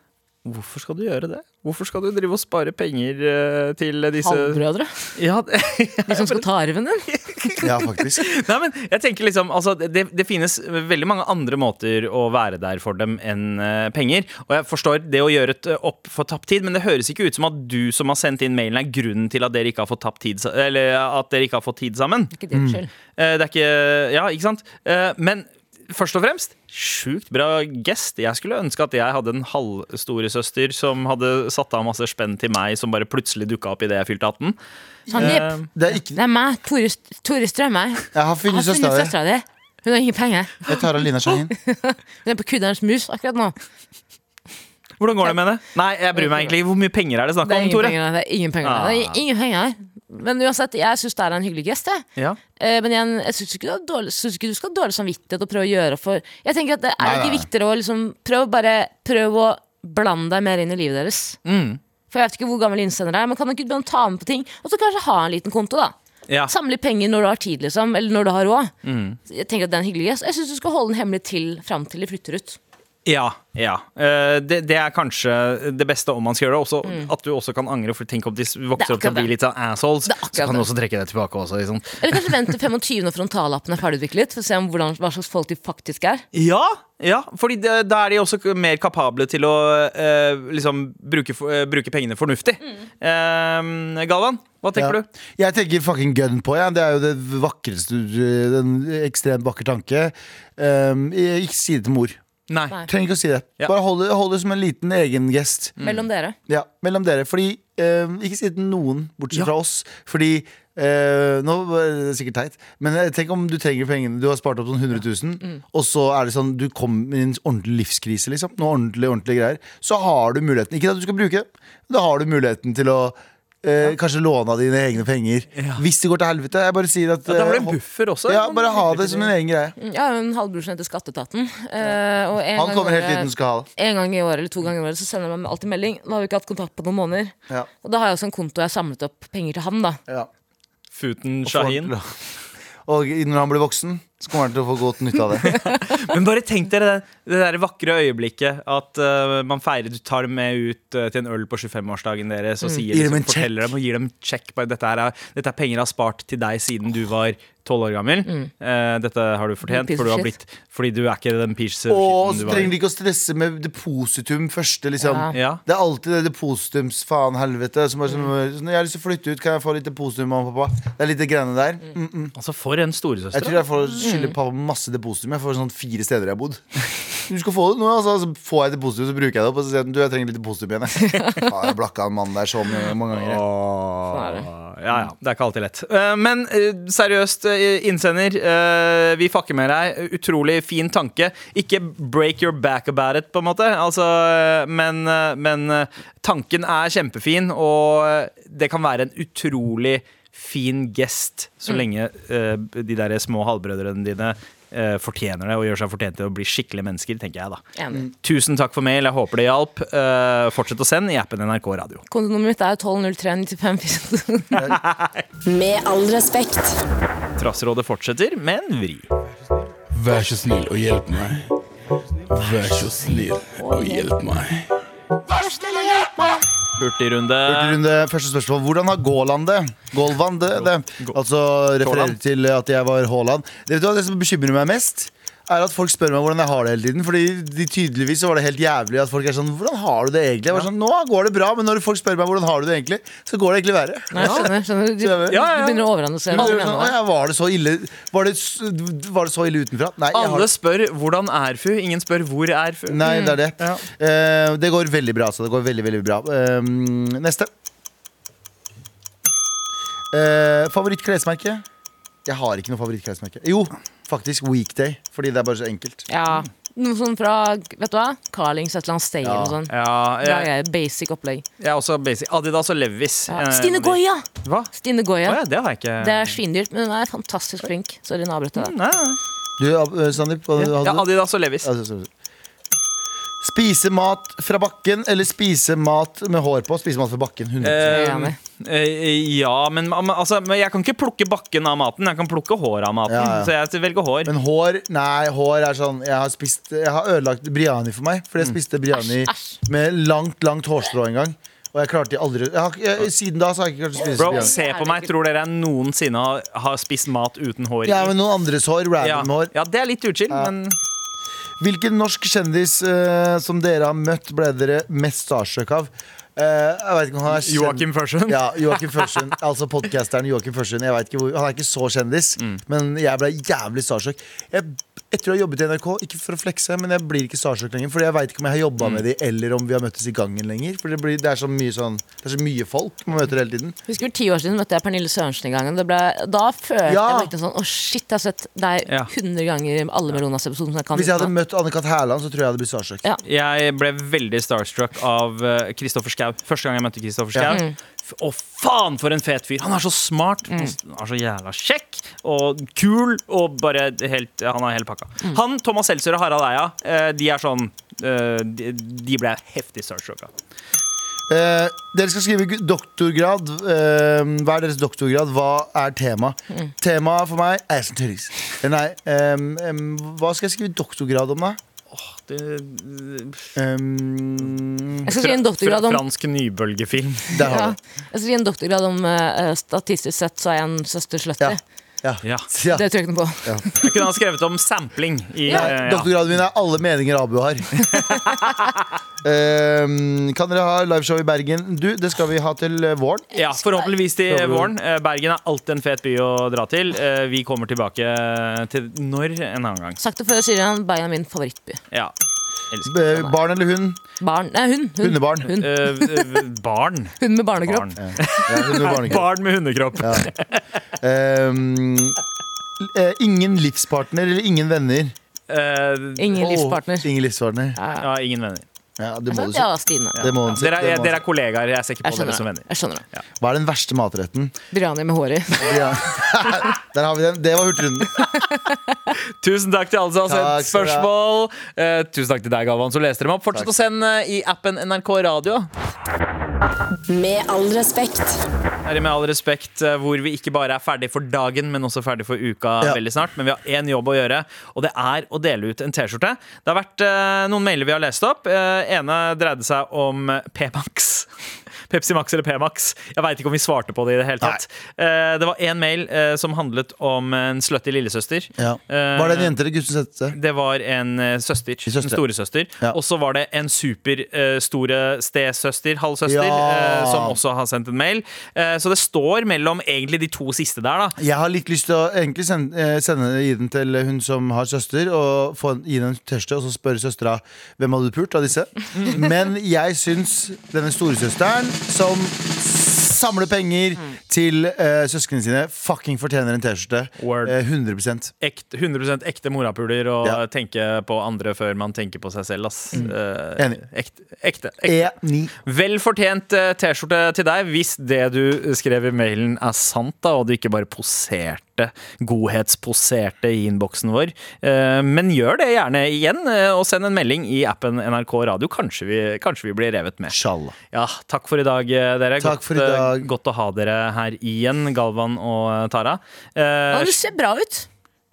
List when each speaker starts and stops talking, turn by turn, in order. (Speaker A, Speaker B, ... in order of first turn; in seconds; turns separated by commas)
Speaker A: 0.5-4.6, Speaker B: 4.2-5.1, Speaker A: 5.2-6.4, Speaker B: 6.1-7.1, Speaker A: 7.1-22.3, Speaker C: 7.6-8.3, Speaker B: 22.3-22.9, Speaker C: 22.5-22.8, Speaker A: 23.2-34.6, Speaker C: 35.1-36.2, Speaker B: 35.1-40.7, Speaker A: 35.2-35.7, Speaker C: 38.1-39.1, Speaker C: 40.7-41.5, Speaker B: 41.6-43.5, Speaker A: 45.0-48.0, Speaker B: 46.2-46.5, Speaker B: 47.4-52.0, Speaker A: 48.6-49.2, Speaker B: 52.6-61.4, Speaker C: 57.0-57.5, Speaker A: 61.5-61.8, Speaker B: 62.1-66.0, Speaker B: 66.5-68.7, Speaker A: 68.8-69.2, Speaker B: 69.3-72.6, Speaker A: 73.1-82.4, Speaker B: 76.8-77.1, Speaker B: 78.8-79.3, Speaker B: 80.1-80.7, Speaker B: 82.0-86.2, Speaker A: 86.3-95.1, Speaker C: 94.8-102.2, Speaker A: 102.5-102.8, Speaker C: 102.9-105.8, Speaker A: 105.8-106.0, Speaker B: 105.8-106.4, Speaker C: 106.5-129.8, Speaker A: 125.6-125.8, Speaker A: 127.3-129.3, Speaker B: 129.8-140.0, Speaker C: 132.5-133.7, Speaker A: 140.9-141.9, Speaker C: 141.4-142.1, Speaker C: 142.9-145.5, Speaker A: 145.4-162.8, Speaker C: 152.9-153.7, Speaker B: 159.7-160.3, Speaker C: 161.9-172.3, Speaker B: 165.0-165.3, Speaker A: 165.3-165.6, Speaker A: 172.4-174.0, Speaker C: 173.3-183.4, Speaker B: 174.0-174.3, Speaker B: 181.1-181.5, Speaker A: 183.1-212.0, Speaker B: 184.1-184.5, Speaker B: 207.8-208.0, Speaker B: 212.1-214.6, Speaker A: 214.5-215.2, Speaker D: 215.4-216.8, Speaker A: 217.4-219.1, Speaker E: 219.9-221.5, Speaker E: 222.3-224.7, Speaker B: 223.6-224.1, Speaker B: 225.4-226.4, Speaker A: 226.8-227.8, Speaker C: 227.4-245.5, Speaker A: 231.8-232.2, Speaker B: 244.1-247.0, Speaker A: 244.2-244.5, Speaker A: 245.3-246.7, Speaker C: 246.3-250.5, Speaker A: 250.1-253.1, Speaker C: 252.9-257.5, Speaker B: 253.1-253.4, Speaker C: 260.1-261.6, Speaker C: 262.3-266.1, Speaker B: 266.1-271.4, Speaker C: 269.2-269.6, Speaker A: 269.7-270.5, Speaker A: 271.6-276.4, Speaker B: 273.3-275.4, Speaker B: 276.0-278.7, Speaker A: 278.6-279.2, Speaker C: 279.6-281.1, Speaker A: 280.6-281.7, Speaker C: 281.6-282.1, Speaker C: 283.4-288.3, Speaker A: 287.6-294.3, Speaker B: 287.9-288.4, Speaker C: 293.1-293.5, Speaker C: 294.3-304.5, Speaker B: 298.9-299.6, Speaker B: 304.0-305.1, Speaker A: 304.1-308.1, Speaker C: 307.9-309.5, Speaker A: 309.0-310.8, Speaker C: 311.6-333.8, Speaker A: 317.3-319.2, Speaker B: 333.9-341.3, Speaker C: 336.9-337.3, Speaker C: 340.9-343.1, Speaker A: 343.2-360.3, Speaker C: 347.3-347.6, Speaker B: 350.5-350.7, Speaker C: 361.3-371.6, Speaker A: 371.9-373.5, Speaker C: 373.6-375.1, Speaker B: 375.1-376.0, Speaker A: 375.1-377.5, Speaker C: 377.3-377.8, Speaker B: 377.4-381.6, Speaker C: 381.4-382.9, Speaker B: 382.7-383.9, Speaker A: 383.8-386.1, Speaker C: 385.5-387.8, Speaker A: 387.8-388.8, Speaker C: 389.2-393.3, Speaker A: 393.3-400.0, Speaker B: 393.5-393.9, Speaker C: 394.3-394.7, Speaker B: 400.0-401.8, Speaker A: 402.7-403.1, Speaker C: 402.9-404.0, Speaker B: 404.2-406.4, Speaker C: 405.0-405.5, Speaker A: 405.6-410.6, Speaker B: 407.2-409.1, Speaker C: 408.0-409.3, Speaker C: 410.0-410.3, Speaker C: 411.0-412.2, Speaker C: 412.8-415.1, Speaker A: 415.5-416.5, Speaker B: 416.2-417.1, Speaker C: 416.4-417.8, Speaker B: 417.8-418.1, Speaker A: 418.0-418.6, Speaker C: 419.0-419.7, Speaker B: 419.3-420.2, Speaker A: 420.2-423.2, Speaker C: 420.2-421.2, Speaker B: 422.0-423.0, Speaker C: 423.4-424.5, Speaker B: 424.7-425.7, Speaker C: 425.6-428.2, Speaker B: 428.2-428.8, Speaker A: 429.4-435.7, Speaker C: 430.3-431.1, Speaker D: 437.1-438.4, Speaker A: 438.9-451.3, Speaker A: 451.9-459.6, Speaker C: 458.6-460.4, Speaker A: 460.3-471.2, Speaker C: 461.9-462.2, Speaker C: 466.3-467.4, Speaker C: 471.2-488.3, Speaker A: 487.2-487.6, Speaker A: 488.4-495.1, Speaker C: 492.9-493.8, Speaker C: 494.9-495.5, Speaker A: 495.7-510.4, Speaker C: 510.3-510.8, Speaker A: 510.9-517.2, Speaker C: 512.4-513.3, Speaker B: 516.9-517.9